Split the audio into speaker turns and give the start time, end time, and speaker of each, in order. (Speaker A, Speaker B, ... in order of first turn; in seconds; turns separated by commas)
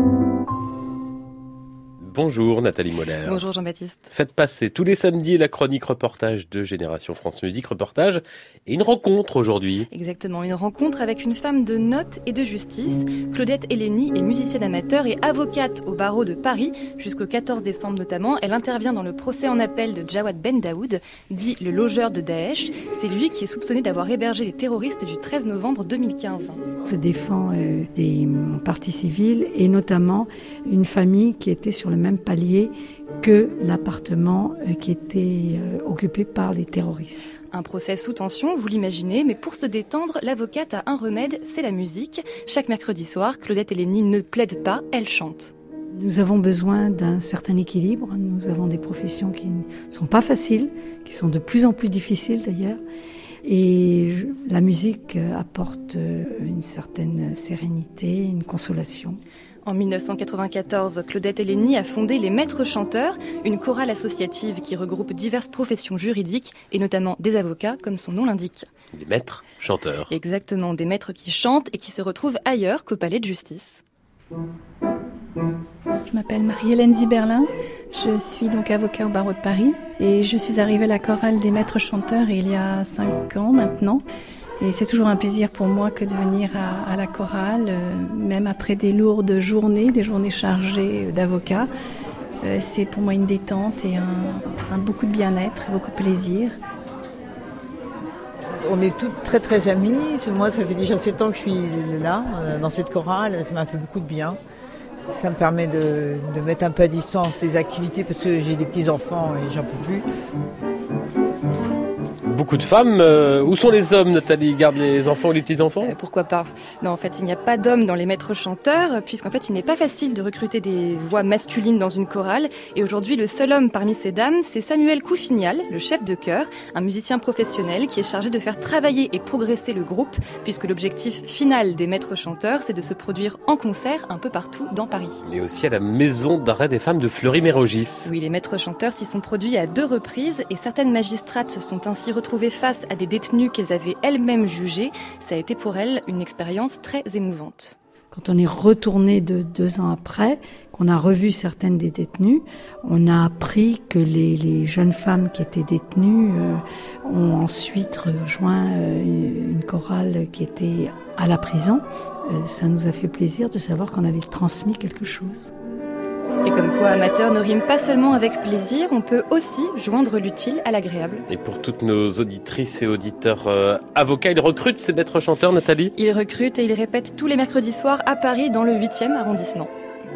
Speaker A: 2.0-3.5, Speaker B: 3.2-4.0, Speaker A: 4.1-9.9, Speaker B: 9.9-26.6, Speaker C: 26.9-37.4, Speaker B: 37.5-45.5, Speaker C: 45.9-52.8, Speaker C: 53.5-59.2, Speaker B: 59.6-68.7, Speaker A: 68.9-70.1, Speaker B: 70.1-73.8, Speaker D: 76.0-84.0, Speaker D: 84.6-91.7, Speaker D: 92.4-96.6, Speaker E: 98.6-104.4, Speaker E: 105.1-110.1, Speaker A: 112.3-116.0, Speaker B: 115.8-135.2, Speaker A: 135.3-138.1, Speaker B: 138.1-147.8, Speaker C: 148.1-165.5, Speaker B: 166.4-171.3, Speaker A: 171.3-175.9, Speaker B: 176.0-179.7